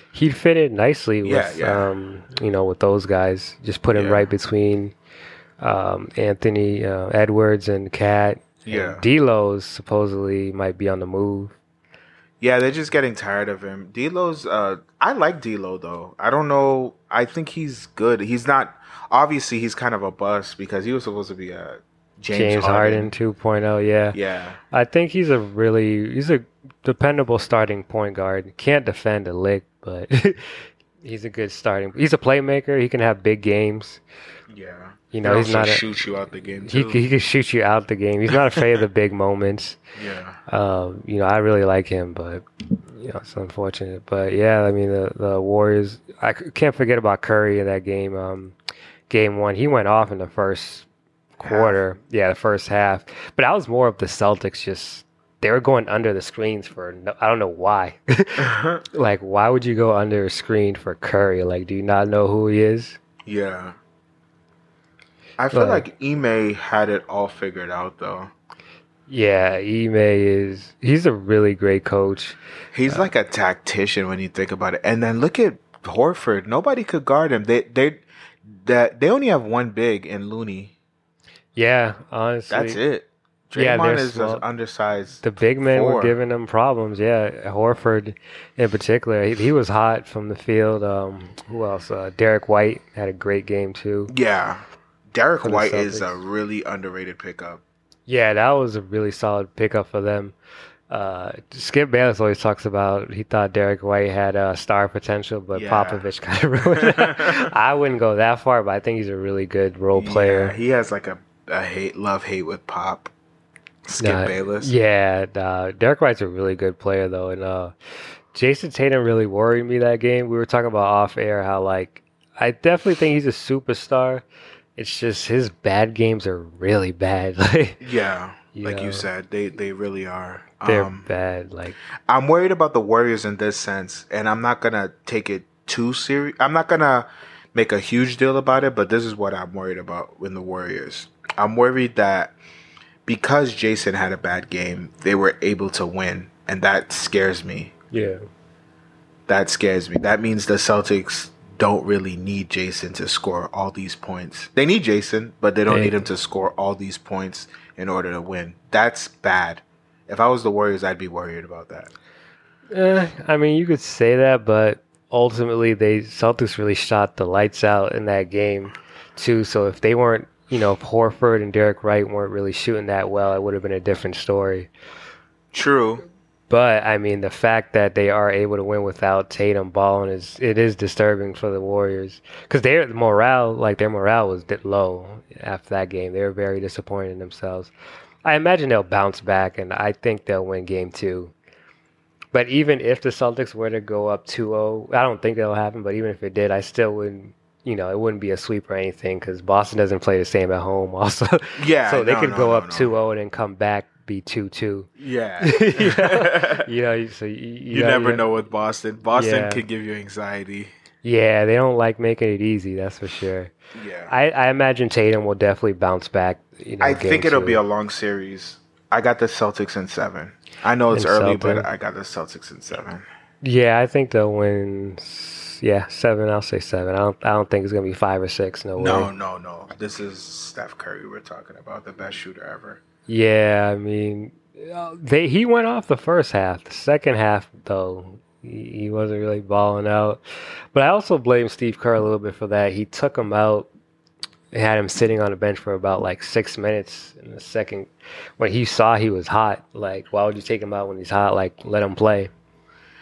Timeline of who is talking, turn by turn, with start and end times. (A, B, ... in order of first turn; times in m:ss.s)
0:00.1-0:04.9 A
0:01.2-0:01.9 B
0:03.9-0:04.3 B
0:05.6-0:11.6 A
0:08.6-0:09.0 B
0:12.4-0:23.1 B
0:22.3-0:24.2 A
0:24.1-0:24.6 B
0:24.7-0:34.0 A
0:34.5-0:37.1 B
0:35.1-0:35.8 A
0:36.7-0:39.8 A
0:38.3-0:38.8 B
0:40.0-0:40.4 B
0:40.5-0:48.6 A
0:49.1-0:50.9 A
0:51.4-1:03.0 A
0:51.4-0:51.8 B
0:58.4-0:58.8 B
1:03.3-1:03.8 B
1:05.4-1:08.3 B
1:05.5-1:05.8 A
1:09.1-1:12.4 A
1:12.7-1:20.7 B
1:21.6-1:22.8 A
1:22.5-1:26.2 B
1:23.6-1:24.4 A
1:25.2-1:34.1 A
1:34.1-1:34.6 B
1:35.1-1:37.6 B
1:35.4-1:36.2 A
1:38.1-1:40.4 A
1:40.9-1:50.6 A
1:45.5-1:46.1 B
1:46.7-1:47.5 B
1:49.9-1:53.1 B
1:53.9-1:54.7 B
1:54.0-1:57.7 A
1:58.3-2:04.2 A
2:04.8-2:07.8 A
2:07.8-2:11.1 B
2:08.6-2:09.1 A
2:10.6-2:11.8 A
2:12.1-2:22.4 B
2:23.1-2:27.7 B
2:27.9-2:28.2 A
2:29.3-2:41.9 B
2:35.7-2:36.0 A
2:42.7-2:54.7 A
2:55.5-2:56.0 B
2:56.5-3:07.7 A
3:08.2-3:11.3 A
3:12.3-3:24.9 A
3:21.6-3:23.0 B
3:25.0-3:26.7 B
3:25.4-3:28.3 A
3:27.7-3:30.7 B
3:29.1-3:29.6 A
3:31.0-3:33.5 A
3:33.7-3:34.1 B
3:34.1-3:37.6 A
3:36.8-3:43.0 B
3:40.9-3:41.7 A
3:43.4-3:49.1 A
3:48.8-3:52.8 B
3:53.1-4:00.2 A
4:00.7-4:03.7 A
4:04.5-4:12.3 A